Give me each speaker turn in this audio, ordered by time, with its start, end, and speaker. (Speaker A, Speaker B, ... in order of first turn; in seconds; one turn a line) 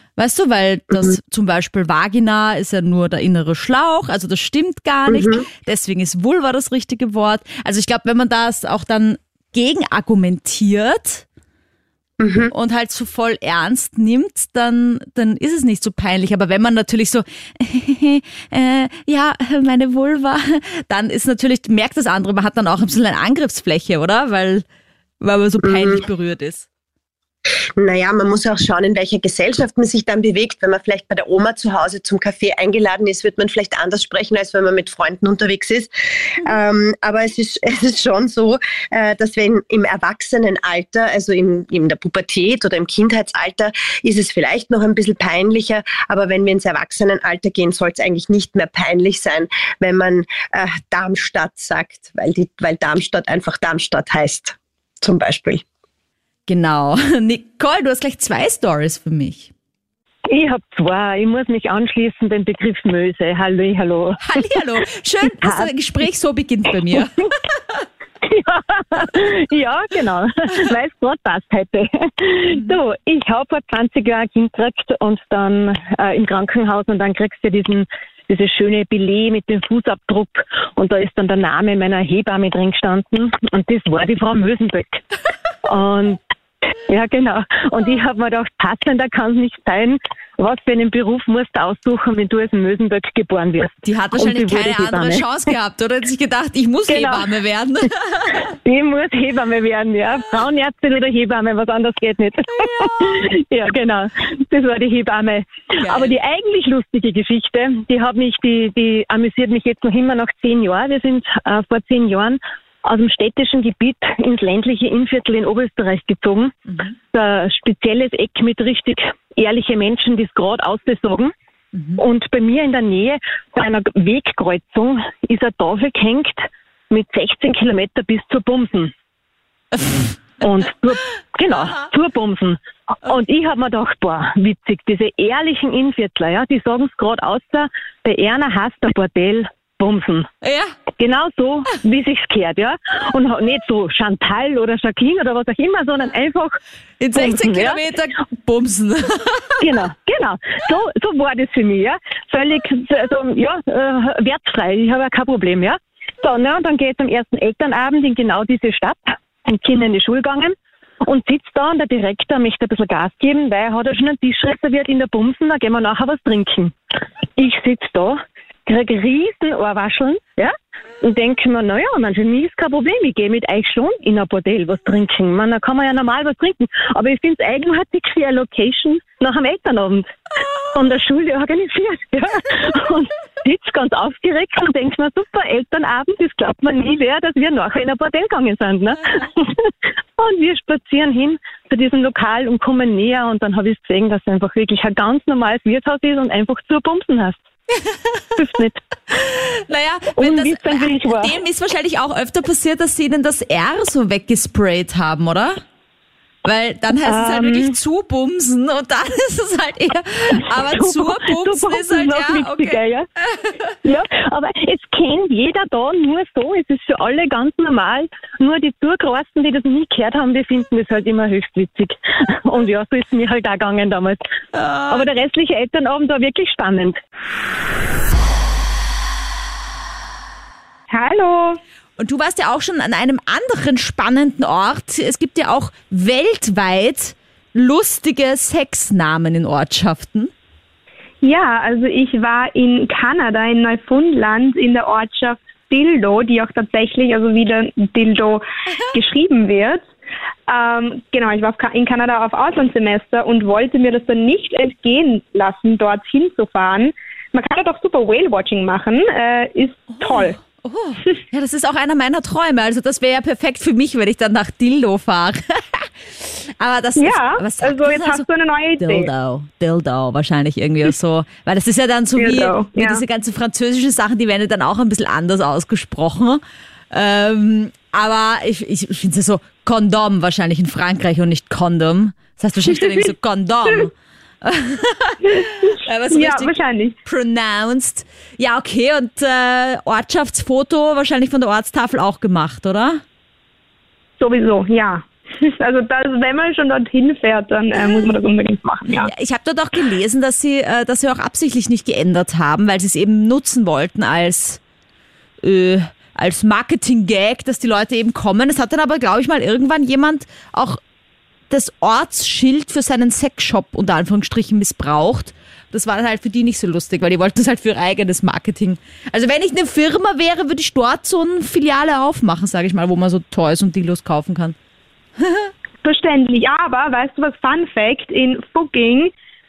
Speaker A: 0.2-11.2
Speaker B: 5.1-5.4
Speaker B: 12.2-12.5
Speaker A: 12.5-24.6
Speaker A: 25.2-26.6
Speaker B: 25.6-26.0
Speaker B: 27.8-55.6
Speaker A: 56.5-59.5
Speaker C: 60.3-64.6
Speaker A: 64.2-67.3
Speaker C: 65.2-65.7
Speaker C: 68.2-85.0
Speaker C: 85.6-86.2
Speaker C: 86.9-95.2
Speaker A: 93.8-98.4
Speaker C: 96.9-97.2
Speaker C: 98.6-116.6
Speaker A: 102.6-103.0
Speaker A: 105.8-106.1
Speaker C: 117.1-121.3
Speaker A: 121.7-122.0
Speaker C: 122.0-128.9
Speaker C: 130.4-140.3
Speaker A: 140.4-140.7
Speaker C: 141.0-146.6
Speaker A: 147.0-149.5
Speaker C: 147.1-147.8
Speaker C: 149.6-166.8
Speaker C: 167.3-180.1
Speaker C: 180.7-197.4
Speaker C: 198.3-198.8
Speaker A: 199.1-205.6
Speaker C: 200.2-201.4
Speaker A: 206.4-212.8
Speaker C: 207.1-207.7
Speaker C: 210.6-213.1
Speaker C: 213.8-224.2
Speaker A: 224.5-225.0
Speaker C: 224.9-227.0
Speaker D: 230.9-231.6
Speaker A: 232.0-240.3
Speaker D: 241.2-249.9
Speaker A: 248.7-248.9
Speaker D: 250.5-260.4
Speaker A: 259.9-268.3
Speaker D: 267.0-269.1
Speaker A: 268.8-293.0
Speaker D: 272.1-273.0
Speaker D: 282.7-283.0
Speaker D: 285.2-286.9
Speaker D: 294.2-299.1
Speaker A: 299.0-304.6
Speaker A: 305.4-310.8
Speaker A: 311.5-324.5
Speaker D: 325.8-329.1